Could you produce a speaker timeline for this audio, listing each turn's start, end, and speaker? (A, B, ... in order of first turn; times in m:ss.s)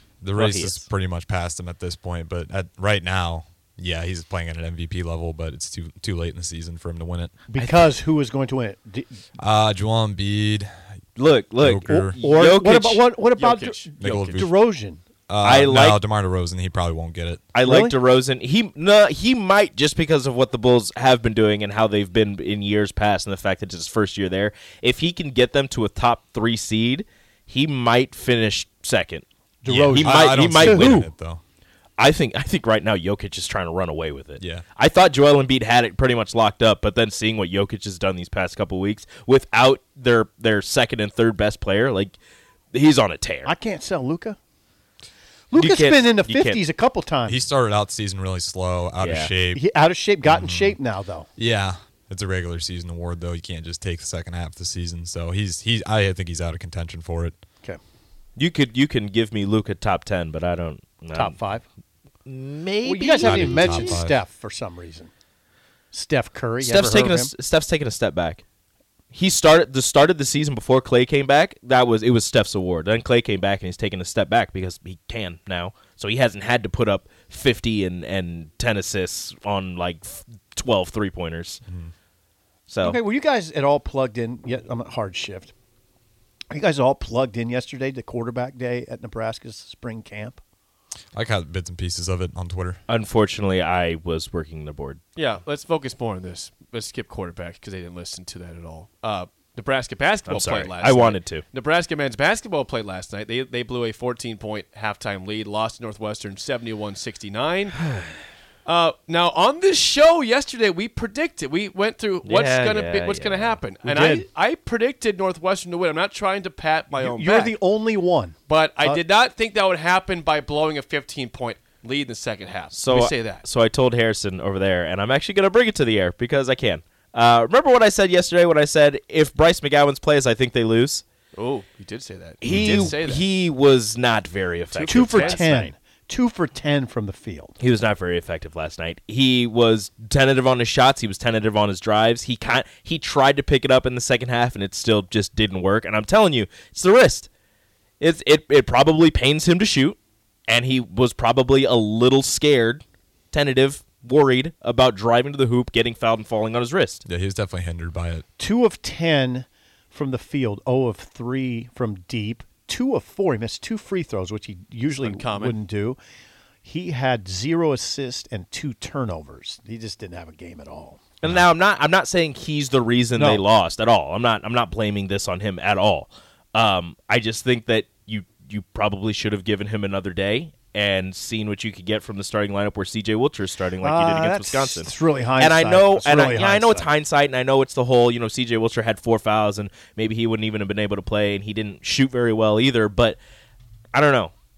0:00.2-0:07.3 A
0:00.3-0:00.8 B
0:07.5-0:09.2 C
0:09.4-0:10.7 A
0:11.2-0:13.2 B
0:11.6-0:12.1 A
0:11.8-0:15.0 C
0:13.3-0:14.4 D
0:14.0-0:14.4 A
0:15.3-0:17.5 A
0:15.4-0:16.0 B
0:17.5-0:29.2 B
0:17.6-0:18.0 C
0:29.6-0:31.1 C
0:29.7-0:31.4 A
0:29.9-0:31.0 B
0:32.0-0:42.2 B
0:34.4-0:34.6 A
0:42.7-0:43.5 B
0:43.4-0:44.4 C
0:45.5-0:47.4 C
0:45.6-0:46.6 B
0:47.3-0:49.6 A
0:49.0-0:49.3 B
0:49.5-0:51.3 C
0:50.3-0:50.7 A
0:51.4-0:57.4 A
0:58.4-1:01.4 B
1:01.1-1:01.6 C
1:02.2-1:04.0 B
1:02.8-1:05.1 C
1:03.2-1:04.2 A
1:05.9-1:07.3 C
1:06.6-1:08.4 B
1:09.1-1:21.6 B
1:22.7-1:23.0 B
1:22.8-1:25.5 C
1:26.5-1:30.4 C
1:31.1-1:32.8 A
1:32.9-1:35.0 B
1:35.2-1:47.8 D
1:40.2-1:41.4 B
1:47.9-1:48.2 B
1:48.6-1:57.6 D
1:52.2-1:53.6 B
1:53.8-1:54.2 C
1:56.9-1:59.0 C
1:58.5-2:03.4 D
2:02.7-2:11.0 B
2:11.3-2:13.3 D
2:12.4-2:15.6 B
2:14.7-2:15.7 D
2:14.9-2:17.6 C
2:17.6-2:27.3 B
2:28.0-2:30.0 B
2:30.5-2:37.0 B
2:37.0-2:38.2 A
2:38.4-2:46.0 C
2:45.0-2:45.5 D
2:46.6-2:51.1 C
2:51.2-3:13.2 B
2:53.2-2:53.4 C
3:03.8-3:06.9 C
3:13.9-3:14.3 B